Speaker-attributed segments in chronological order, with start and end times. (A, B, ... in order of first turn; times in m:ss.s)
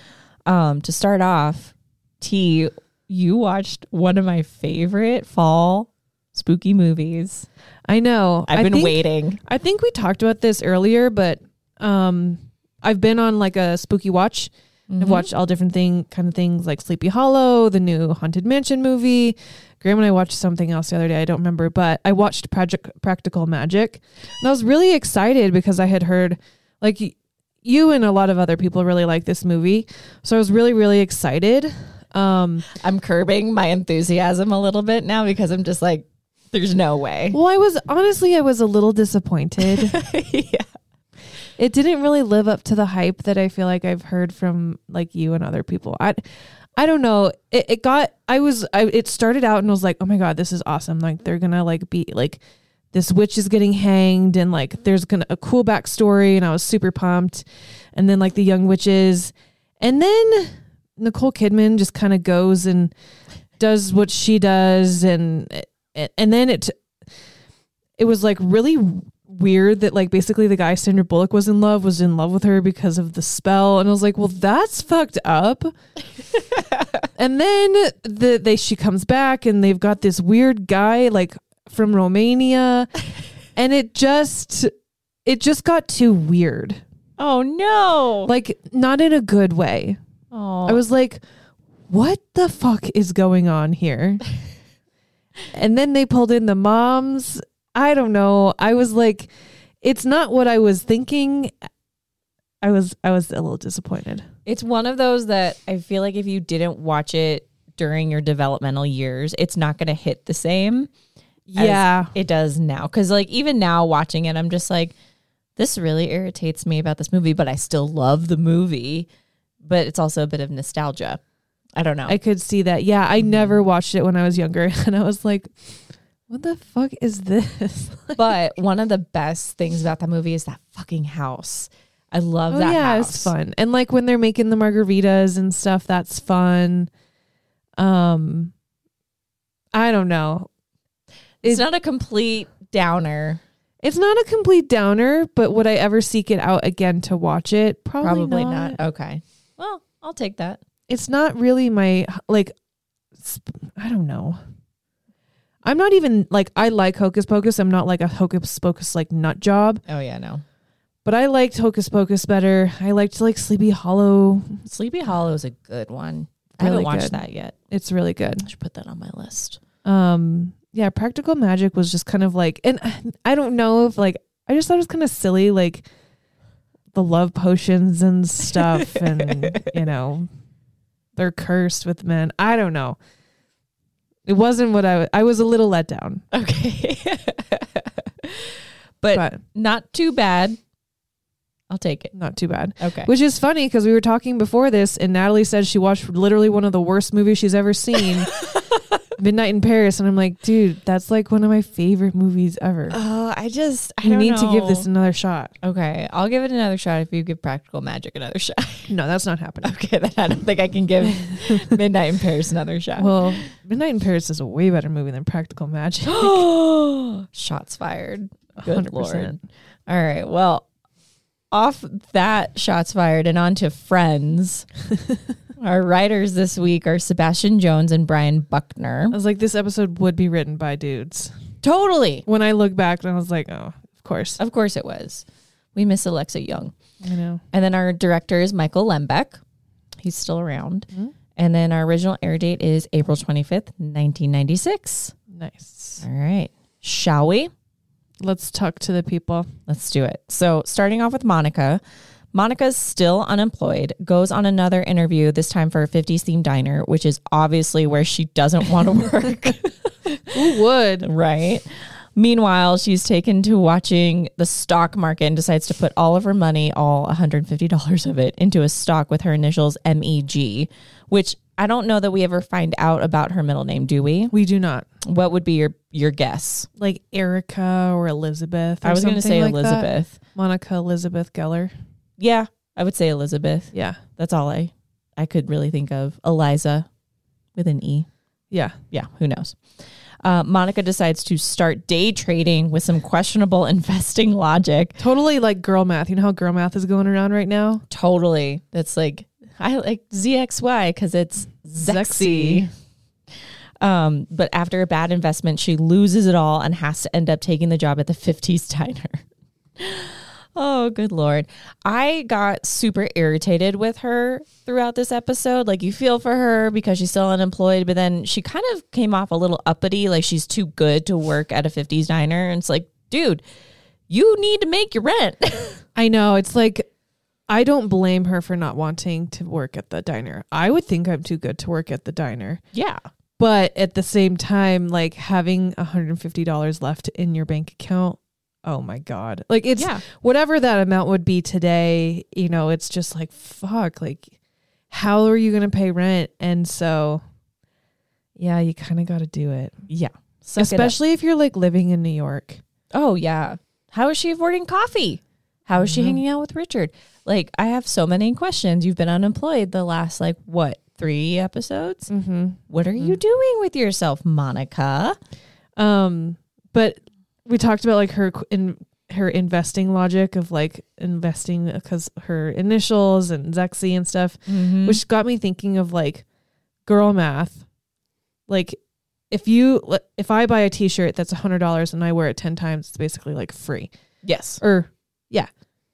0:00.5-0:07.5 A
0:07.9-0:32.7 B
0:08.5-0:09.4 A
0:14.9-0:15.3 A
0:32.7-0:37.4 A
0:37.3-0:40.0 B
0:39.6-0:40.7 A
0:41.6-0:46.2 B
0:46.8-0:52.4 B
0:52.9-1:02.9 B
1:03.6-1:06.8 B
1:08.0-1:15.7 B
1:16.5-1:17.0 A
1:17.2-1:22.9 B
1:23.6-1:24.7 B
1:25.3-1:26.8 B
1:27.2-1:28.3 A
1:28.2-1:30.0 B
1:30.3-1:30.8 A
1:30.7-1:31.2 B
1:31.9-1:34.2 B
1:35.5-1:39.3 B
1:39.8-1:41.5 B
1:42.6-1:44.3 B
1:44.5-1:50.9 A
1:51.5-1:52.2 B
1:51.6-1:54.9 A
1:55.6-1:59.1 A
1:59.6-2:01.2 A
2:01.8-2:02.2 A
2:02.1-2:05.5 B
2:06.3-2:08.3 B
2:08.2-2:13.3 A
2:12.5-2:16.9 B
2:17.8-2:18.5 B
2:19.7-2:20.5 B
2:21.4-2:23.4 A
2:23.8-2:28.8 B
2:28.0-2:30.6 A
2:30.9-2:32.5 B
2:33.2-2:34.4 B
2:35.6-2:39.8 B
2:39.9-2:40.4 A
2:41.0-2:44.6 B
2:44.7-2:47.6 A
2:46.6-2:47.2 B
2:47.7-2:48.5 B
2:48.4-2:49.6 A
2:49.8-2:55.9 B
2:57.0-3:00.3 B
2:58.5-2:59.6 A
3:01.2-3:03.0 B
3:04.3-3:06.2 B
3:06.3-3:10.6 A
3:09.1-3:09.4 B
3:11.7-3:12.1 A
3:12.1-3:18.4 B
3:12.8-3:13.1 A
3:18.3-3:19.0 A
3:19.2-3:23.0 B
3:22.9-3:24.9 A
3:24.0-3:25.5 B
3:25.6-3:28.9 A
3:28.9-3:29.8 B
3:29.6-3:33.4 A
3:31.2-3:31.8 B
3:33.0-3:36.4 B
3:36.1-3:39.4 A
3:38.6-3:39.4 B
3:39.9-3:40.7 A
3:41.5-3:44.7 A
3:45.6-3:49.2 A
3:49.1-3:51.3 B
3:51.6-3:52.2 A
3:52.3-3:54.4 B
3:54.4-3:56.7 A
3:57.0-3:57.4 B
3:57.5-3:59.4 A
4:00.0-4:05.1 A
4:05.3-4:06.0 B
4:06.0-4:07.5 A
4:08.2-4:09.5 B
4:09.7-4:11.8 A
4:12.3-4:20.4 A
4:20.3-4:21.1 B
4:21.0-4:34.3 A
4:34.3-4:34.9 B
4:35.0-4:36.7 A
4:36.8-4:41.7 B
4:38.8-4:40.2 A
4:42.2-4:46.9 A
4:43.7-4:44.0 B
4:47.6-4:48.1 A
4:48.5-4:48.8 B
4:48.9-4:49.6 A
4:50.2-4:55.0 A
4:55.0-4:57.8 B
4:57.9-5:02.7 A
5:01.8-5:02.7 B
5:03.8-5:09.2 A
5:09.8-5:23.4 A
5:24.1-5:25.8 A
5:26.0-5:26.9 B
5:27.5-5:32.6 B
5:32.7-5:33.0 A
5:33.4-5:44.3 B
5:39.8-5:40.0 A
5:44.9-5:47.2 B
5:48.4-5:49.7 B
5:49.9-5:51.0 A
5:50.6-5:52.6 B
5:52.9-6:02.1 A
5:55.8-5:56.2 B
6:02.1-6:03.2 B
6:02.7-6:05.2 A
6:05.8-6:16.2 B
6:14.5-6:15.0 A
6:16.9-6:17.6 B
6:18.5-6:18.8 B
6:19.3-6:23.9 B
6:24.2-6:24.6 A
6:24.6-6:25.5 B